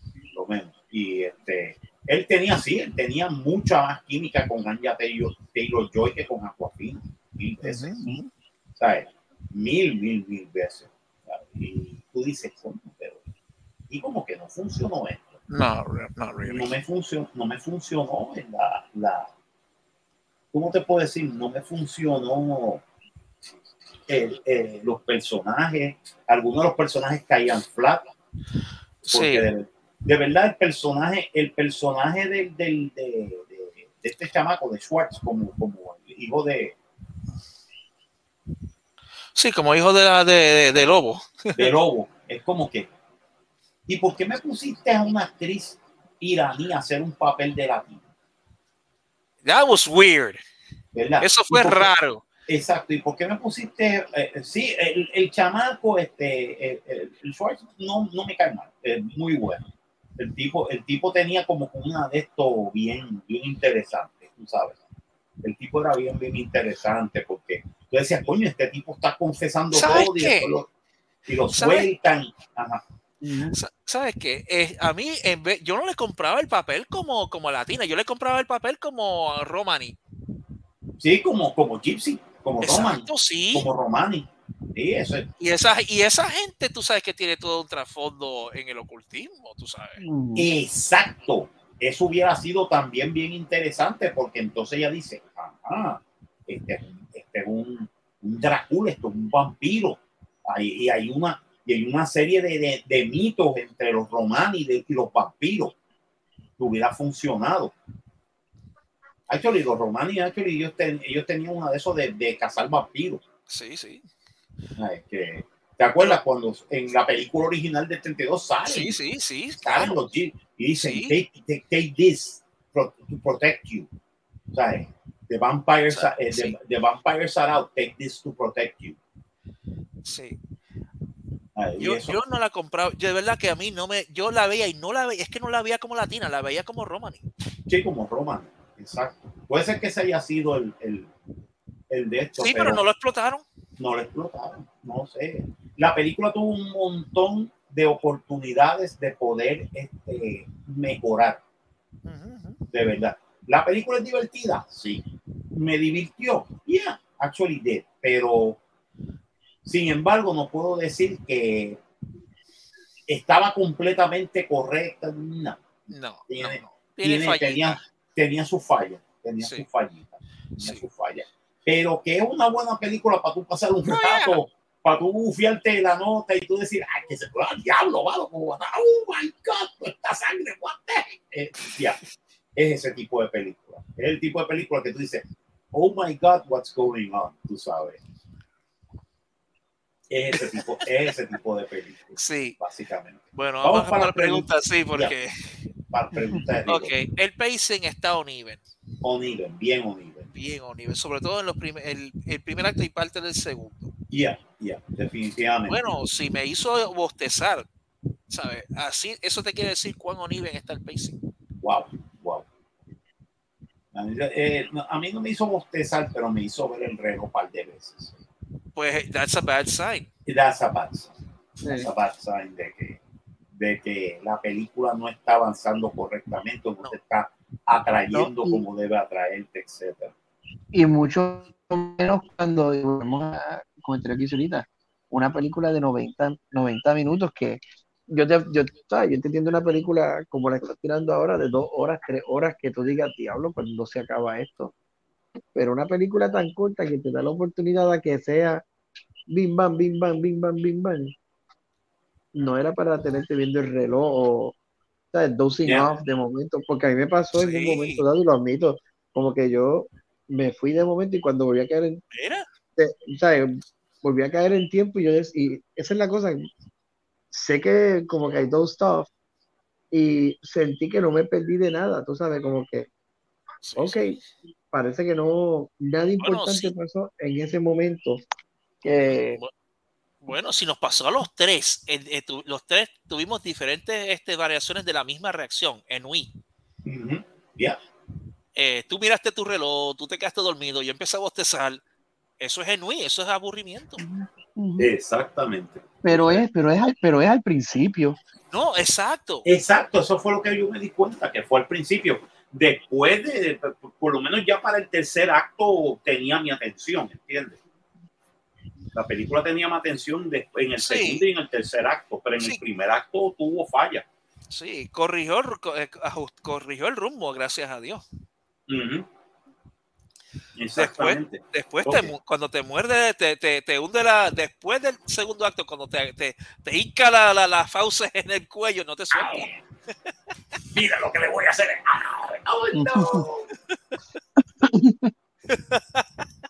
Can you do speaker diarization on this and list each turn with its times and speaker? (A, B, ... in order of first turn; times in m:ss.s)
0:00.3-0:08.1 A
0:07.6-0:08.3 B
0:08.8-0:13.2 A
0:13.9-0:15.3 A
0:15.5-0:16.7 B
0:16.4-0:19.3 A
0:20.5-0:22.8 A
0:24.1-0:28.1 A
0:29.0-0:29.4 B
0:29.1-0:36.8 A
0:39.3-0:41.7 B
0:41.6-0:42.9 A
0:43.9-0:48.0 A
0:49.4-0:50.4 B
0:50.9-0:51.9 A
0:51.2-0:52.2 B
0:52.5-1:04.8 A
1:05.4-1:10.7 A
1:09.7-1:10.6 B
1:11.3-1:12.8 A
1:11.5-1:11.9 B
1:13.2-1:13.6 C
1:13.5-1:20.0 B
1:21.0-1:25.3 A
1:22.6-1:23.7 B
1:25.4-1:30.0 B
1:30.0-1:30.5 C
1:30.3-1:45.7 A
1:46.6-1:47.7 A
1:49.3-1:53.2 A
1:53.5-1:54.0 B
1:54.8-1:59.0 A
1:58.6-2:00.0 B
1:59.6-2:03.9 A
2:00.8-2:01.1 B
2:04.5-2:09.0 A
2:05.9-2:06.5 B
2:10.0-2:10.4 B
2:11.6-2:12.2 A
2:11.8-2:17.2 B
2:17.7-2:21.1 A
2:21.9-2:22.8 A
2:22.4-2:23.4 B
2:23.8-2:31.4 A
2:32.0-2:32.6 B
2:32.7-2:38.6 A
2:39.6-2:41.8 A
2:43.1-2:45.6 A
2:45.9-2:47.8 B
2:46.3-3:02.0 A
2:50.6-2:50.8 B
2:53.9-2:54.4 B
3:02.6-3:08.0 A
3:10.1-3:15.1 A
3:12.2-3:12.6 B
3:13.3-3:15.7 B
3:15.8-3:16.9 A
3:16.7-3:18.6 B
3:19.0-3:20.3 A
3:20.3-3:23.9 B
3:24.1-3:25.8 A
3:25.7-3:27.6 B
3:28.3-3:31.2 B
3:31.6-3:32.4 A
3:33.9-3:38.2 A
3:38.7-3:40.1 B
3:40.2-3:41.1 A
3:41.6-3:41.9 C
3:41.8-3:43.0 A
3:43.5-3:50.1 A
3:48.1-3:48.6 C
3:50.7-4:04.7 C
4:05.5-4:08.6 C
4:09.3-4:11.1 C
4:12.3-4:14.5 C
4:15.1-4:22.0 C
4:17.4-4:18.0 B
4:22.1-4:22.5 B
4:22.8-4:26.5 C
4:27.3-4:29.1 C
4:29.9-4:32.9 C
4:33.6-4:34.2 B
4:33.8-4:34.2 C
4:34.7-4:38.2 C
4:36.2-4:36.7 B
4:38.8-4:39.4 C
4:39.0-4:39.5 B
4:40.2-4:46.3 B
4:46.8-4:47.8 A
4:48.6-4:51.8 B
4:52.4-4:54.0 B
4:54.0-4:54.9 C
4:54.8-4:56.4 A
4:56.0-4:58.2 C
4:58.5-4:59.4 B
4:59.4-5:07.6 A
5:08.9-5:14.0 A
5:10.8-5:11.2 B
5:14.5-5:18.0 B
5:18.7-5:19.0 A
5:20.6-5:22.1 A
5:20.7-5:29.5 B
5:29.1-5:29.6 A
5:30.7-5:33.5 A
5:32.7-5:33.3 C
5:34.6-5:35.1 C
5:35.5-5:36.0 B